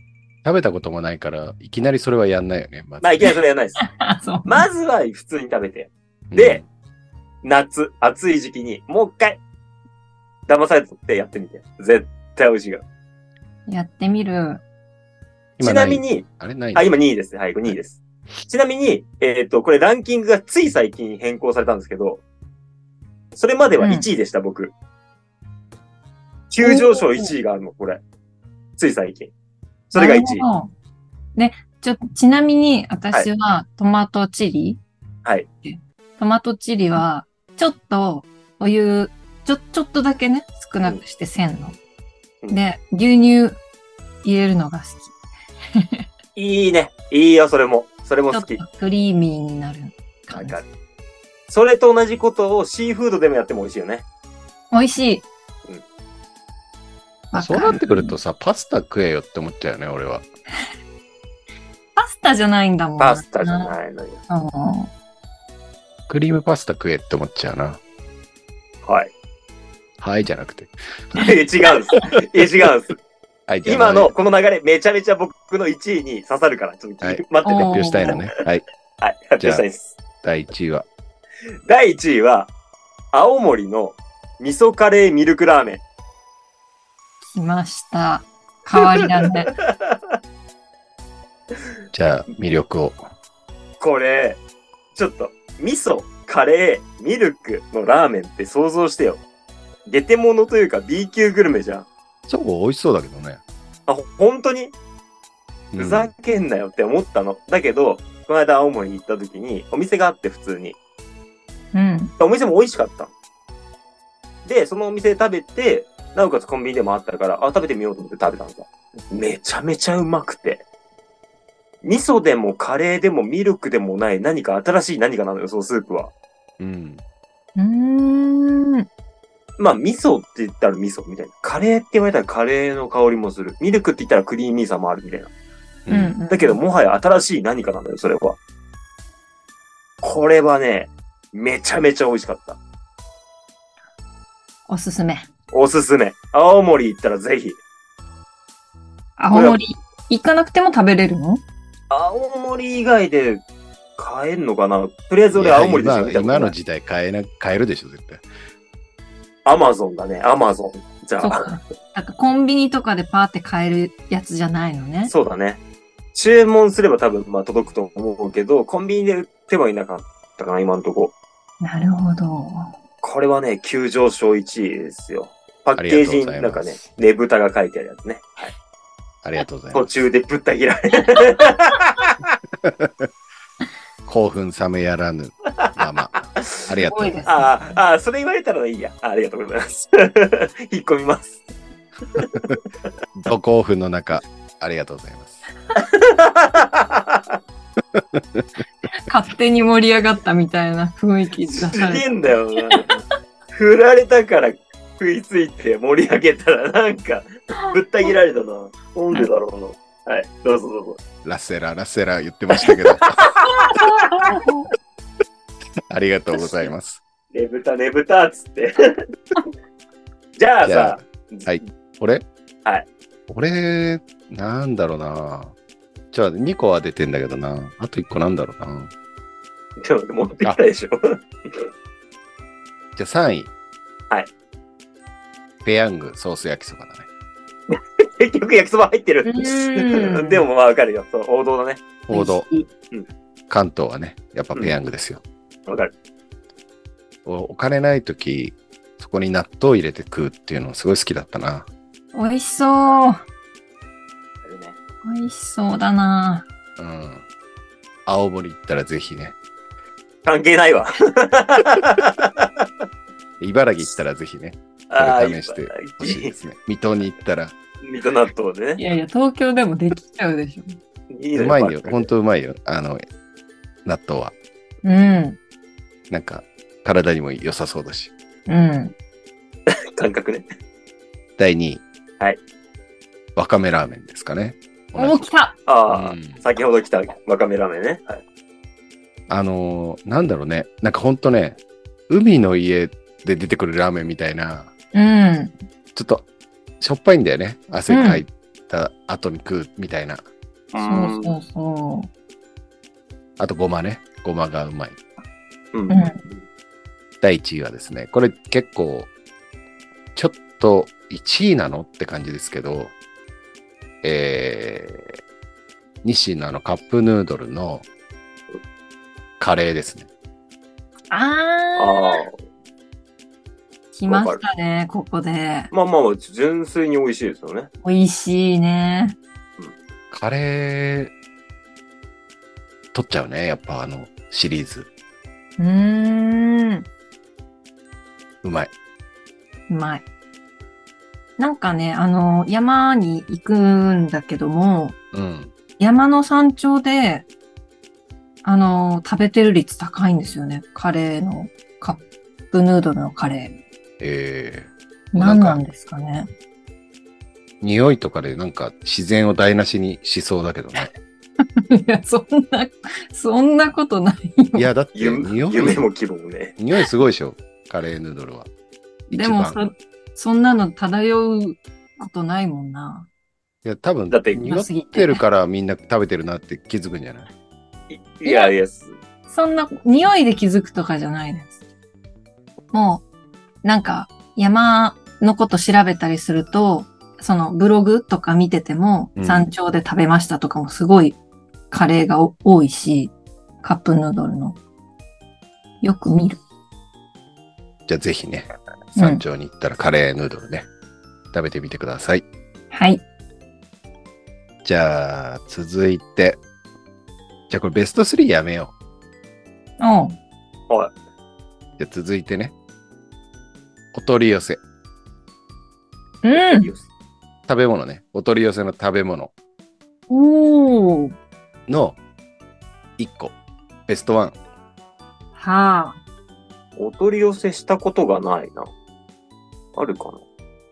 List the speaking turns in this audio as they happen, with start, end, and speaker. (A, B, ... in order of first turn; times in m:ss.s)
0:00.4-0:03.2 A
0:03.0-0:03.8 B
0:03.8-0:04.7 C
0:04.5-0:06.6 B
0:06.3-0:06.7 A
0:07.4-0:09.4 B
0:10.5-0:12.8 B
0:13.7-0:14.6 C
0:15.6-0:16.9 A
0:15.6-0:22.2 B
0:23.4-0:24.7 B
0:23.8-0:24.1 C
0:26.5-0:28.0 B
0:26.6-0:27.3 C
0:28.8-0:29.3 B
0:29.9-0:30.4 B
0:30.0-0:30.7 C
0:31.4-0:34.8 C
0:35.6-0:41.8 C
0:42.5-0:43.6 C
0:44.2-0:45.1 C
0:45.8-0:46.0 C
0:46.4-0:48.6 B
0:48.3-0:50.6 C
0:50.3-0:50.7 B
0:51.5-0:54.0 B
0:54.7-0:55.3 C
0:57.3-0:58.2 C
0:57.4-1:00.2 A
1:02.0-1:03.7 C
1:03.0-1:04.2 B
1:04.3-1:04.9 C
1:06.1-1:07.8 A
1:08.8-1:09.1 B
1:10.0-1:10.8 A
1:11.2-1:13.0 B
1:13.5-1:14.1 A
1:13.7-1:18.3 B
1:17.0-1:18.6 A
1:17.4-1:18.2 C
1:19.0-1:20.0 B
1:20.2-1:20.9 A
1:21.7-1:22.5 B
1:23.1-1:25.8 B
1:27.2-1:29.5 C
1:28.8-1:30.2 B
1:31.9-1:33.0 A
1:33.8-1:34.4 B
1:35.0-1:39.2 B
1:39.9-1:41.9 B
1:42.3-1:43.4 A
1:43.9-1:44.7 B
1:45.7-1:46.1 A
1:45.8-1:50.8 B
1:51.7-1:52.1 C
1:52.2-1:53.1 B
1:54.4-2:00.6 B
2:01.8-2:06.1 B
2:06.6-2:07.0 A
2:07.6-2:08.9 C
2:09.6-2:15.3 B
2:15.9-2:16.2 A
2:15.9-2:16.6 C
2:16.3-2:18.4 B
2:20.0-2:22.6 B
2:24.7-2:25.3 C
2:25.5-2:27.6 B
2:29.2-2:31.4 C
2:29.3-2:29.6 B
2:31.9-2:33.4 B
2:34.0-2:36.6 B
2:35.3-2:38.2 A
2:39.4-2:41.5 B
2:41.2-2:45.1 C
2:45.1-2:45.6 B
2:46.1-2:51.1 B
2:51.6-2:52.7 C
2:53.0-2:58.5 B
2:55.8-2:56.8 A
2:59.2-3:00.0 A
2:59.7-3:02.2 B
3:02.6-3:03.1 A
3:04.1-3:07.2 A
3:06.4-3:06.7 B
3:06.9-3:07.5 C
3:07.3-3:11.4 B
3:12.2-3:12.5 B
3:13.2-3:15.4 A
3:15.8-3:17.4 B
3:17.9-3:18.5 A
3:19.0-3:22.1 C
3:21.5-3:23.0 B
3:23.5-3:31.0 B
3:31.2-3:33.2 A
3:32.7-3:33.8 B
3:33.6-3:34.7 C
3:35.9-3:37.0 A
3:37.3-3:39.0 B
3:40.4-3:41.5 B
3:40.6-3:42.2 A
3:43.3-3:45.5 A
3:46.1-3:48.9 A
3:49.8-3:51.7 B
3:53.0-3:53.5 A
3:55.6-3:57.1 A
3:57.7-4:01.8 B
3:59.2-4:00.4 C
4:02.1-4:02.5 A
4:02.1-4:02.7 C
4:03.5-4:05.2 A
4:05.7-4:05.9 B
4:07.2-4:11.7 A
4:12.1-4:13.2 C
4:14.4-4:14.8 B
4:15.0-4:16.5 C
4:16.8-4:17.2 A
4:18.1-4:19.4 A
4:20.2-4:22.6 B
4:23.4-4:27.5 A
4:24.9-4:26.3 B
4:27.8-4:28.8 B
4:28.8-4:30.8 C
4:31.1-4:32.1 B
4:31.4-4:33.0 A
4:33.8-4:34.4 A
4:34.8-4:35.4 C
4:36.1-4:38.1 A
4:38.5-4:38.9 C
4:39.7-4:40.5 B
4:41.4-4:41.8 A
4:43.4-4:45.3 A
4:45.0-4:45.6 C
4:45.7-4:48.2 B
4:45.9-4:46.4 A
4:49.3-4:54.7 A
4:54.9-4:55.5 C
4:56.0-4:56.3 A
4:56.8-5:00.2 A
4:57.9-4:58.2 C
5:00.7-5:01.4 B
5:00.8-5:02.1 C
5:03.4-5:05.0 A
5:05.7-5:06.4 B
5:05.9-5:06.2 C
5:07.2-5:09.1 A
5:10.2-5:12.9 A
5:14.0-5:15.2 A
5:16.0-5:17.9 A
5:19.4-5:20.1 A
5:21.1-5:22.2 C
5:21.8-5:22.3 B
5:23.9-5:25.7 C
5:24.1-5:24.4 B
5:25.7-5:27.7 B
5:27.8-5:29.2 C
5:30.1-5:31.1 A
5:32.9-5:34.9 A
5:35.6-5:36.8 C
5:38.4-5:38.7 A
5:39.7-5:40.0 C
5:41.4-5:45.0 C
5:45.1-5:45.5 A
5:45.8-5:47.3 C
5:48.4-5:53.6 C
5:54.0-5:55.6 A
5:55.1-5:56.3 C
5:57.6-6:00.9 A
6:01.6-6:04.7 C
6:04.6-6:05.9 A
6:05.0-6:06.6 B
6:06.6-6:08.5 A
6:09.1-6:09.6 A
6:09.1-6:13.1 C
6:13.6-6:17.3 A
6:14.1-6:14.5 B
6:14.4-6:15.2 C
6:17.9-6:18.9 B
6:18.2-6:18.5 C
6:19.3-6:21.6 C
6:22.7-6:23.0 C
6:23.6-6:31.2 C
6:29.2-6:29.5 A
6:31.7-6:34.6 C
6:35.8-6:36.4 C
6:37.9-6:40.7 A
6:39.0-6:39.2 C
6:41.3-6:42.2 A
6:42.7-6:43.0 C
6:44.6-6:46.4 A
6:47.5-6:48.7 A
6:49.8-6:50.2 C
6:51.8-6:52.5 A
6:53.9-6:54.6 A
6:56.2-6:56.7 C
6:56.3-6:56.9 B
6:57.5-6:59.3 A
7:00.1-7:01.1 C
7:01.7-7:02.0 A
7:03.0-7:03.4 A
7:03.9-7:04.4 A
7:05.4-7:06.0 C
7:06.8-7:08.7 B
7:09.8-7:10.2 B